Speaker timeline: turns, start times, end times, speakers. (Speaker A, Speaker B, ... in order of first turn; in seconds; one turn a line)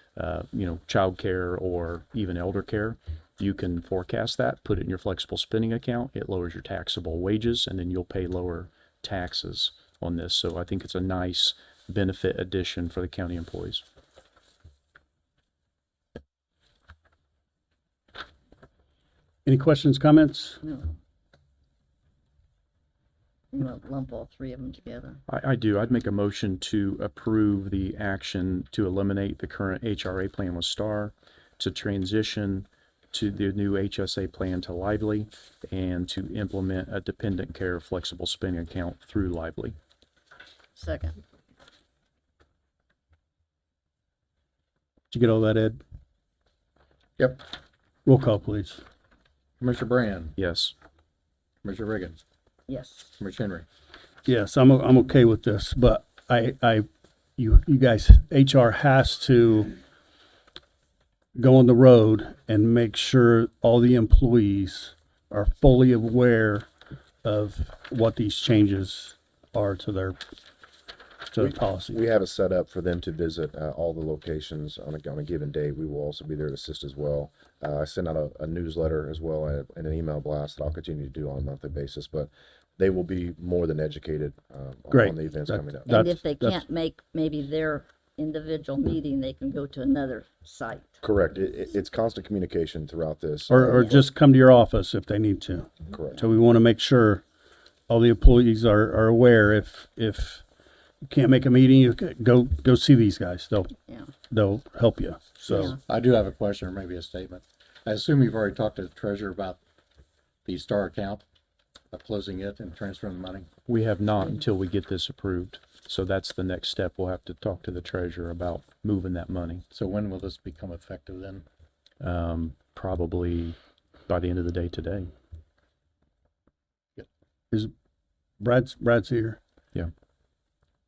Speaker A: 0.1-13.8
Speaker B: 19.4-20.6
Speaker C: 20.6-20.9
Speaker C: 23.5-25.2
Speaker A: 25.3-39.8
Speaker C: 40.8-41.2
Speaker B: 45.1-45.8
Speaker D: 47.2-47.4
Speaker B: 48.0-48.8
Speaker D: 49.6-50.4
Speaker A: 50.4-50.7
Speaker D: 51.6-52.2
Speaker C: 52.7-53.1
Speaker D: 53.2-53.6
Speaker B: 54.2-59.7
Speaker B: 61.3-66.7
Speaker B: 67.2-70.2
Speaker B: 71.3-72.0
Speaker E: 71.4-86.0
Speaker B: 84.9-86.6
Speaker C: 85.9-90.9
Speaker E: 91.0-94.1
Speaker B: 93.5-97.2
Speaker E: 95.9-96.3
Speaker B: 97.9-100.4
Speaker B: 101.0-103.7
Speaker B: 104.3-105.8
Speaker C: 105.5-105.8
Speaker D: 105.9-109.6
Speaker D: 110.4-111.2
Speaker D: 111.9-113.5
Speaker A: 113.7-119.6
Speaker D: 119.7-121.4
Speaker A: 122.0-125.1
Speaker B: 128.4-129.4